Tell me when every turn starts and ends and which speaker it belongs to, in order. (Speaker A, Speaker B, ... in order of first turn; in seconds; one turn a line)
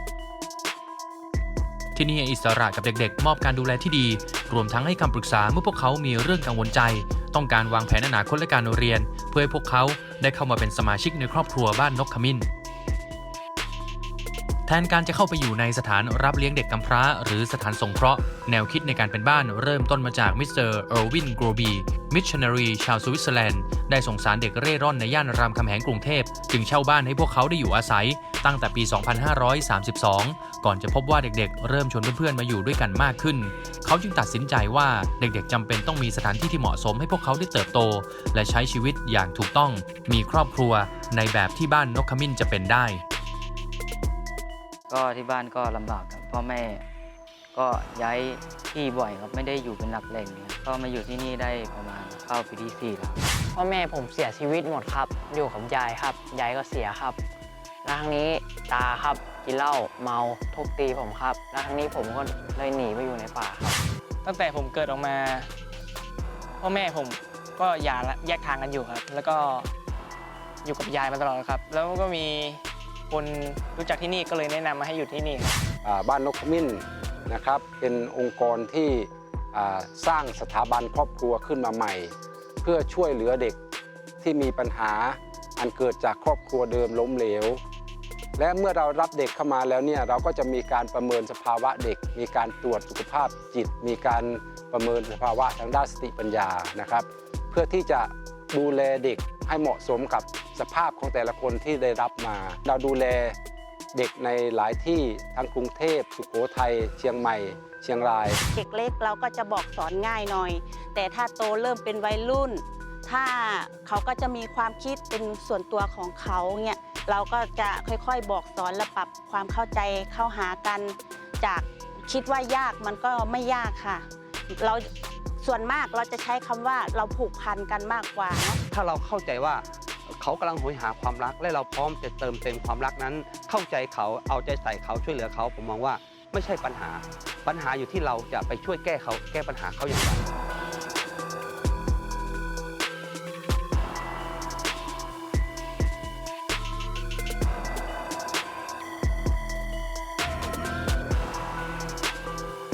Speaker A: 1.9-12.5
Speaker A: 14.7-43.0
Speaker B: 44.9-46.8
Speaker B: 47.5-53.2
Speaker C: 53.5-57.2
Speaker C: 57.8-63.8
Speaker D: 64.2-65.5
Speaker D: 66.6-69.7
Speaker D: 70.6-75.6
Speaker E: 75.8-83.6
Speaker E: 84.2-87.6
Speaker E: 88.4-103.3
Speaker E: 103.9-108.4
Speaker F: 108.5-124.9
Speaker F: 125.4-128.6
Speaker G: 128.7-140.3